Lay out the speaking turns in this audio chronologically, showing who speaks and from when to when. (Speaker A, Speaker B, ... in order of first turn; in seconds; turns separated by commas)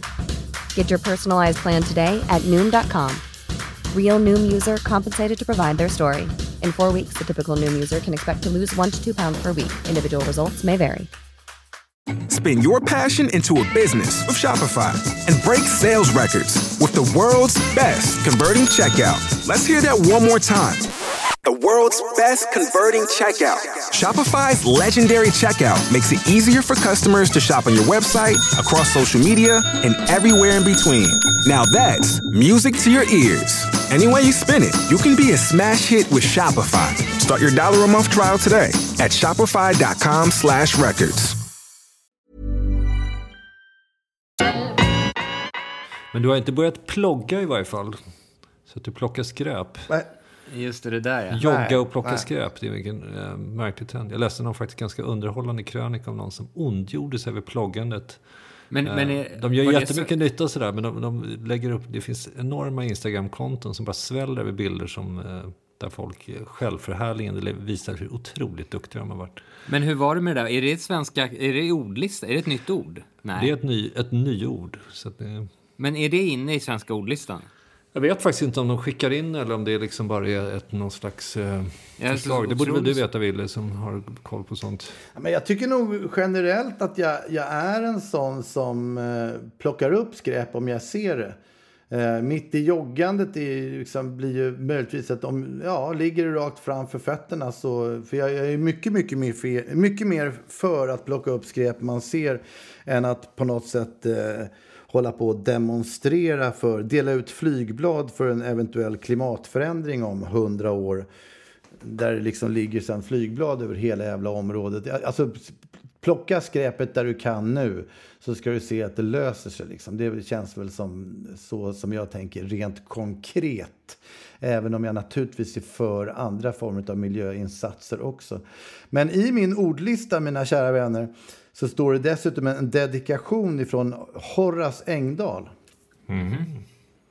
Speaker A: 0.7-3.2, Speaker A: 3.9-11.1, Speaker B: 12.3-20.9, Speaker B: 21.4-41.4, Speaker C: 46.1-48.0, Speaker C: 48.7-49.9, Speaker D: 50.5-51.4, Speaker C: 51.3-58.2, Speaker E: 51.4-52.3, Speaker D: 58.7-60.1, Speaker C: 58.8-69.4, Speaker D: 69.7-73.5, Speaker C: 73.3-75.5, Speaker D: 75.8-77.5, Speaker C: 77.9-85.0, Speaker D: 82.0-83.0, Speaker E: 85.2-91.4, Speaker E: 91.9-111.1, Speaker E: 111.8-135.5, Speaker C: 136.1-136.5, Speaker D: 136.2-136.5